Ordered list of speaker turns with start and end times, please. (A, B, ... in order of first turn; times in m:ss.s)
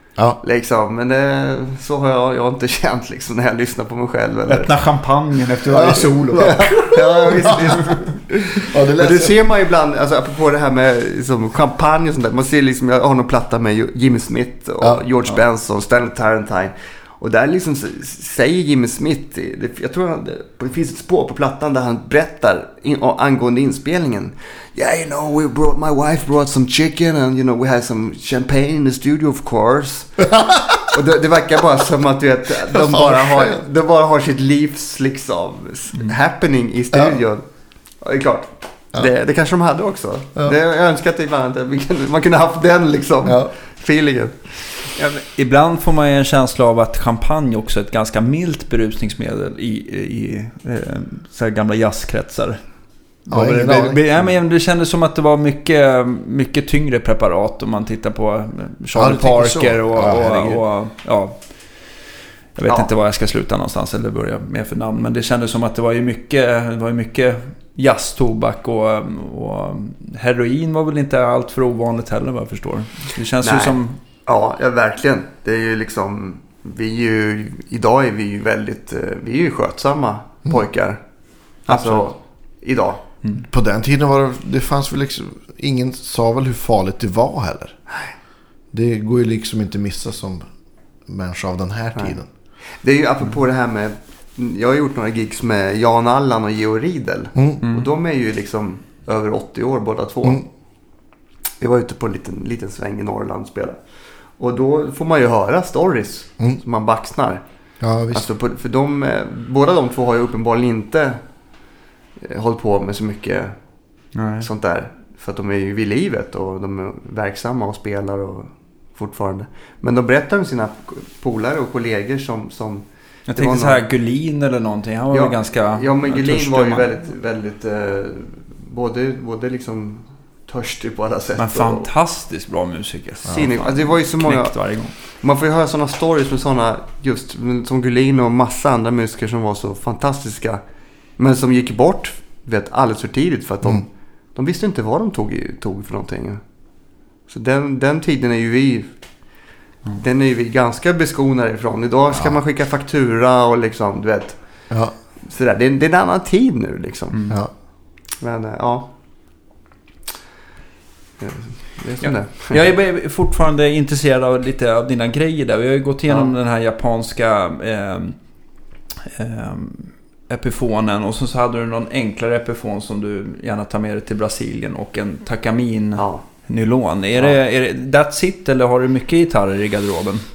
0:00.4-0:04.7 A
0:04.5-0:06.7 B
0:05.7-0:07.8 C
0:06.3-0:30.3 A
0:07.5-0:07.9 B
0:08.7-0:09.4 C
0:30.2-0:31.0 C
0:30.9-0:37.4 A
0:32.7-0:33.6 C
0:38.0-0:44.5 A
0:43.2-0:43.5 C
0:44.8-1:14.0 B
0:53.3-0:54.0 C
0:58.9-1:00.6 C
1:13.4-1:21.0 A
1:21.6-1:23.0 A
1:21.7-1:22.1 B
1:23.4-1:27.8 C
1:28.7-1:30.5 C
1:31.0-1:32.3 C
1:32.8-1:40.4 A
1:37.3-1:37.6 C
1:37.6-1:37.9 B
1:41.6-1:43.8 A
1:44.4-1:47.4 A
1:47.8-1:48.2 C
1:48.1-1:51.2 A
1:52.2-1:53.6 A
1:54.1-1:54.5 B
1:54.4-2:03.8 A
2:03.3-2:07.0 B
2:05.1-2:11.9 A
2:11.4-2:14.9 B
2:13.3-2:20.6 A
2:21.2-2:26.4 A
2:27.3-2:29.0 A
2:30.0-2:37.4 A
2:37.1-2:37.4 B
2:38.2-2:38.9 A
2:41.2-2:42.7 A
2:42.0-2:48.2 B
2:46.1-2:46.3 A
2:49.0-3:00.2 B
2:56.0-2:56.2 A